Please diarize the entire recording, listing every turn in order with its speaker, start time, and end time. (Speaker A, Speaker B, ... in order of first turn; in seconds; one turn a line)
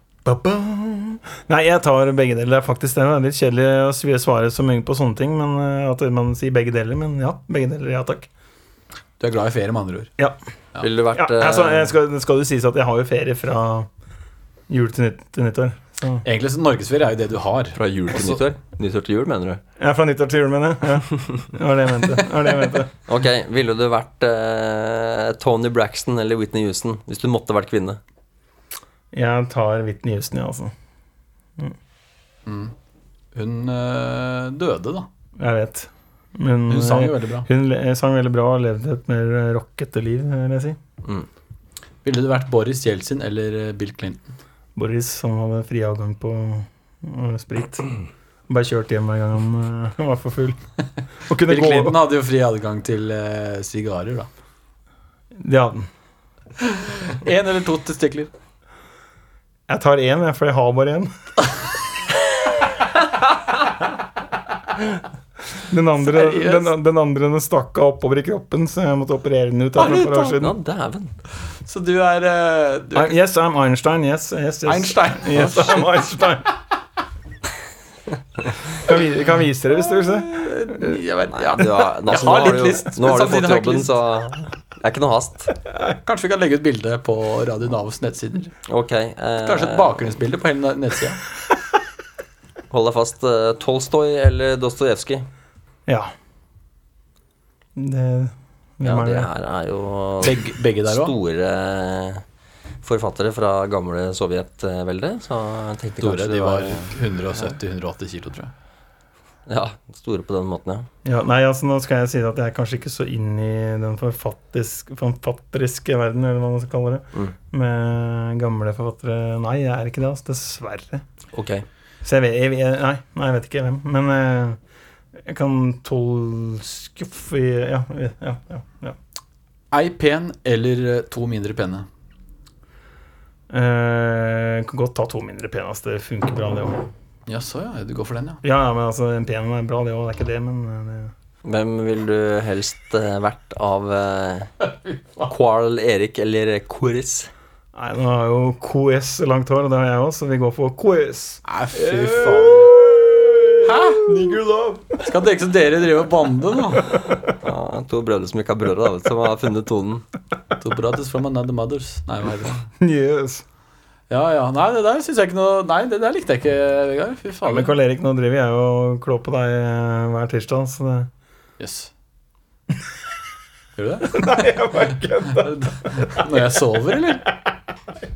Speaker A: 0.2-8.3
Speaker B: 9.2-10.1
Speaker C: 10.8-11.9
Speaker A: 11.1-13.9
Speaker A: 14.7-16.2
Speaker B: 16.2-18.4
Speaker C: 17.7-19.6
Speaker A: 19.8-22.9
Speaker C: 23.1-28.0
Speaker A: 29.1-30.7
Speaker B: 32.5-32.7
Speaker B: 33.3-35.1
Speaker A: 35.4-40.8
Speaker B: 36.7-37.5
Speaker B: 42.0-44.2
Speaker A: 44.8-47.8
Speaker A: 48.5-50.6
Speaker A: 51.3-52.0
Speaker B: 51.5-54.3
Speaker A: 55.4-55.9
Speaker B: 56.6-58.3
Speaker A: 59.7-61.1
Speaker A: 65.7-70.5
Speaker B: 66.0-66.7
Speaker C: 69.8-71.1
Speaker B: 71.6-73.1
Speaker A: 72.9-76.5
Speaker B: 74.7-75.9
Speaker A: 78.8-80.9
Speaker B: 79.9-83.9
Speaker C: 81.3-85.5
Speaker B: 85.9-88.5
Speaker C: 88.7-90.0
Speaker B: 89.4-91.2
Speaker C: 92.7-95.3
Speaker A: 97.8-99.3
Speaker C: 98.8-102.2
Speaker B: 100.2-101.1
Speaker C: 102.8-106.9
Speaker B: 106.0-108.5
Speaker C: 109.5-110.9
Speaker A: 111.0-121.0
Speaker C: 121.3-121.6
Speaker A: 122.0-124.6
Speaker A: 125.2-129.0
Speaker B: 129.7-131.9
Speaker A: 133.5-136.8
Speaker B: 137.3-138.4
Speaker A: 138.4-141.1
Speaker C: 141.4-144.5
Speaker C: 145.2-147.3
Speaker A: 147.7-155.0
Speaker B: 151.5-152.7
Speaker B: 153.6-154.2
Speaker B: 155.0-157.0
Speaker C: 157.3-160.1
Speaker B: 160.6-162.7
Speaker A: 162.8-163.4
Speaker B: 164.1-167.7
Speaker A: 167.4-171.1
Speaker B: 171.6-171.9
Speaker B: 173.8-174.6
Speaker A: 174.1-176.4
Speaker B: 175.4-177.3